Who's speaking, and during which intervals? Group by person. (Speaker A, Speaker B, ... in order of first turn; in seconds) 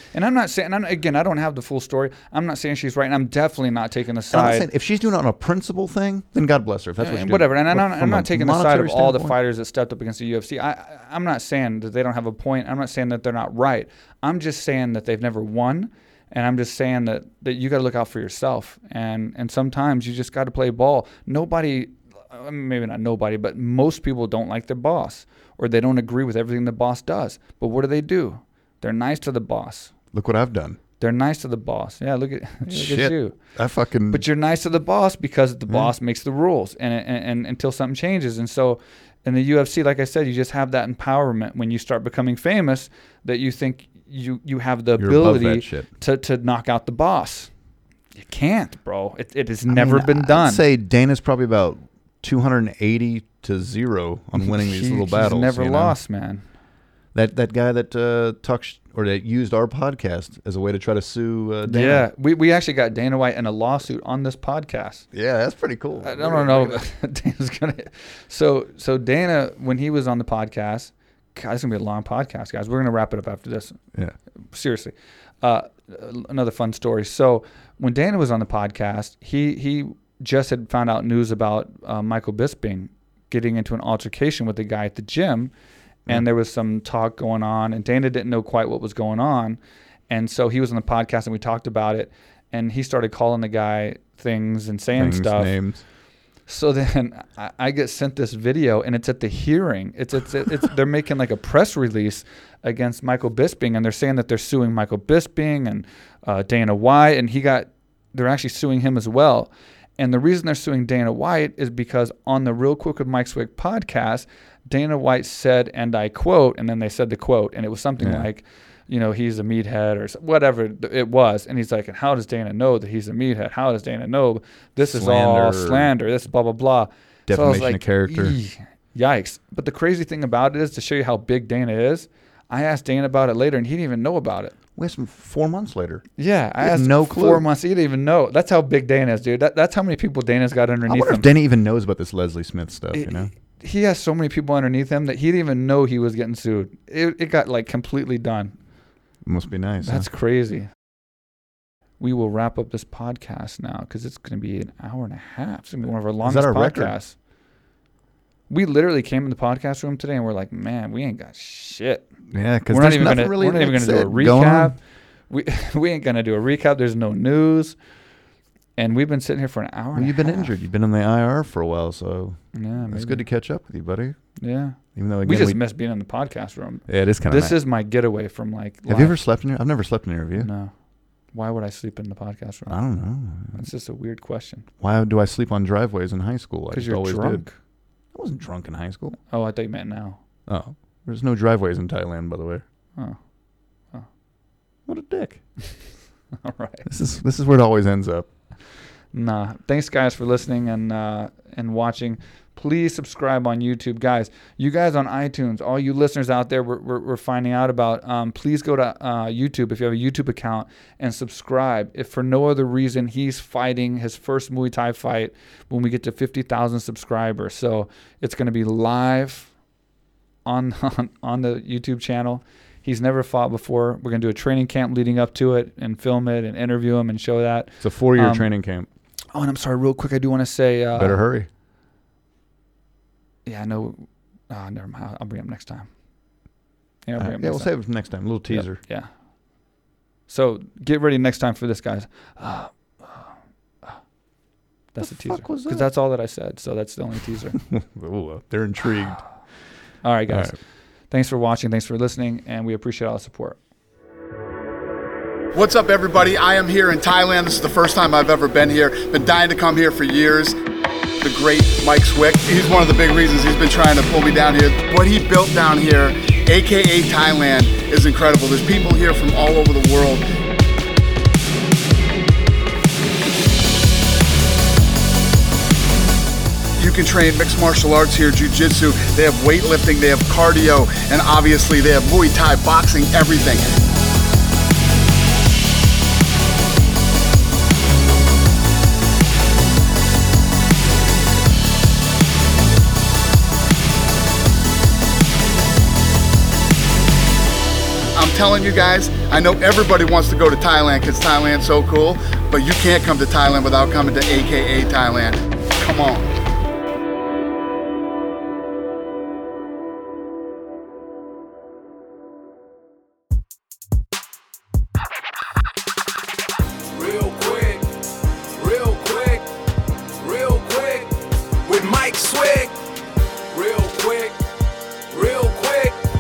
Speaker A: 0.1-4.7, 7.0-29.9, 31.0-33.4, 34.1-47.5, 48.1-50.6, 54.4-56.4, 61.7-65.1, 66.0-73.8, 74.5-85.5, 86.1-95.5, 96.5-134.6, 136.2-141.3, 142.9-148.6, 149.8-150.7, 152.0-157.1, 158.5-162.1, 162.7-164.8, 165.3-167.8, 168.8-170.6, 172.5-173.2, 174.4-179.2, 180.4-180.7, 181.3-182.8, 183.5-184.7, 186.7-187.6, 189.3-190.2, 196.4-196.9, 199.1-219.5, 220.4-228.5, 229.3-231.2, 233.5-235.9, 237.1-237.7, 238.5-239.1, 240.3-243.3, 244.9-247.6, 250.0-250.6, 251.1-253.6
Speaker B: 4.3-9.4, 30.1-30.8, 32.7-34.2, 45.0-45.9, 49.7-56.0, 57.1-62.1, 65.1-66.8, 95.0-95.8, 118.0-118.3, 124.8-125.9, 127.3-128.4, 134.8-136.1, 136.6-137.4, 140.9-143.3, 149.3-150.1, 156.2-157.0, 162.3-164.8, 169.9-174.2, 174.9-175.6, 176.9-177.6, 178.9-180.5, 182.7-183.6, 184.8-187.4, 188.1-189.2, 190.5-192.6, 194.9-195.4, 196.9-198.3, 227.8-228.9, 230.9-231.5, 237.2-238.8, 245.0-245.9, 247.6-249.2, 250.3-250.6
Speaker C: 255.5-260.6, 261.2-270.2, 276.8-283.8, 298.2-306.3
Speaker D: 316.9-319.5, 320.2-322.8, 323.5-324.4, 325.1-326.0